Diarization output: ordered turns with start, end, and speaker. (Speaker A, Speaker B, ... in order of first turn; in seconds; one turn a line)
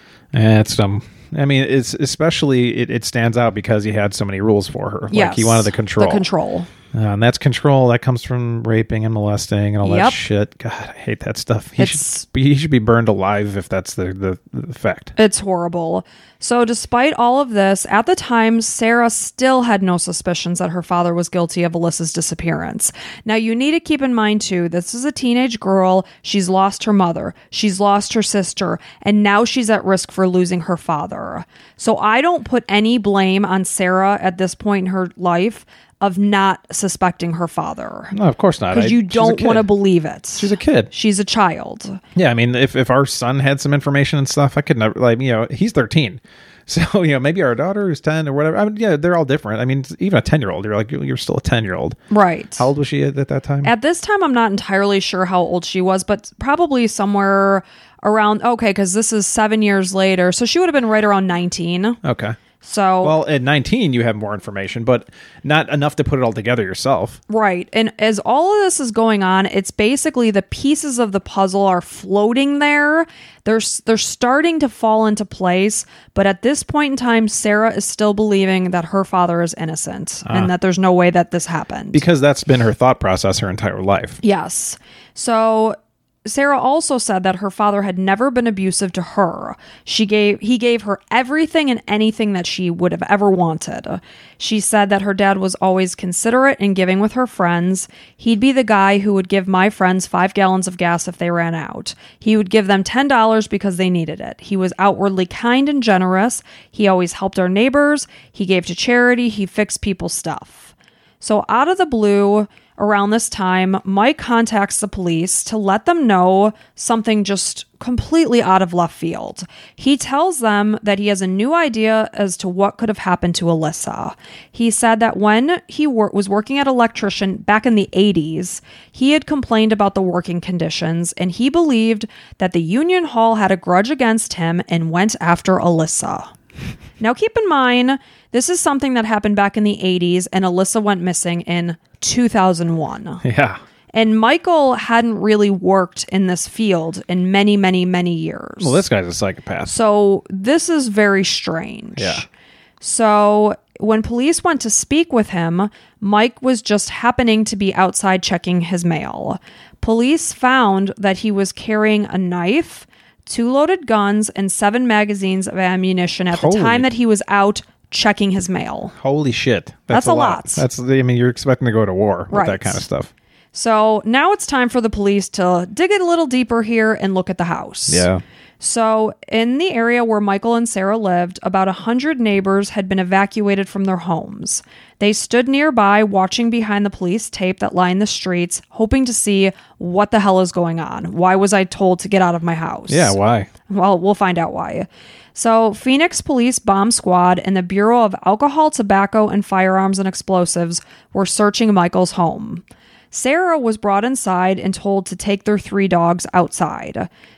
Speaker A: 0.3-6.3
Speaker B: 5.1-6.7
Speaker A: 6.9-15.2
Speaker B: 9.8-10.2
Speaker B: 11.8-12.2
Speaker B: 15.2-38.1
Speaker A: 38.1-39.7
Speaker B: 38.7-42.0
Speaker A: 40.4-40.9
Speaker A: 42.1-52.0
Speaker B: 52.1-52.7
Speaker A: 52.6-53.7
Speaker B: 53.6-62.0
Speaker A: 62.0-62.4
Speaker B: 62.6-63.1
Speaker A: 63.0-67.2
Speaker B: 67.3-82.0
Speaker A: 80.3-80.5
Speaker A: 81.9-84.2
Speaker B: 84.2-136.3
Speaker B: 137.0-143.2
Speaker A: 143.2-143.6
Speaker B: 143.9-148.8
Speaker A: 148.6-149.7
Speaker B: 149.7-152.3
Speaker A: 152.0-152.2
Speaker B: 152.8-168.9
Speaker A: 166.3-166.9
Speaker A: 169.0-173.1
Speaker B: 169.9-170.6
Speaker B: 172.3-172.8
Speaker B: 173.5-178.1
Speaker A: 177.9-178.2
Speaker B: 178.6-193.2
Speaker A: 192.9-193.5
Speaker B: 193.7-207.1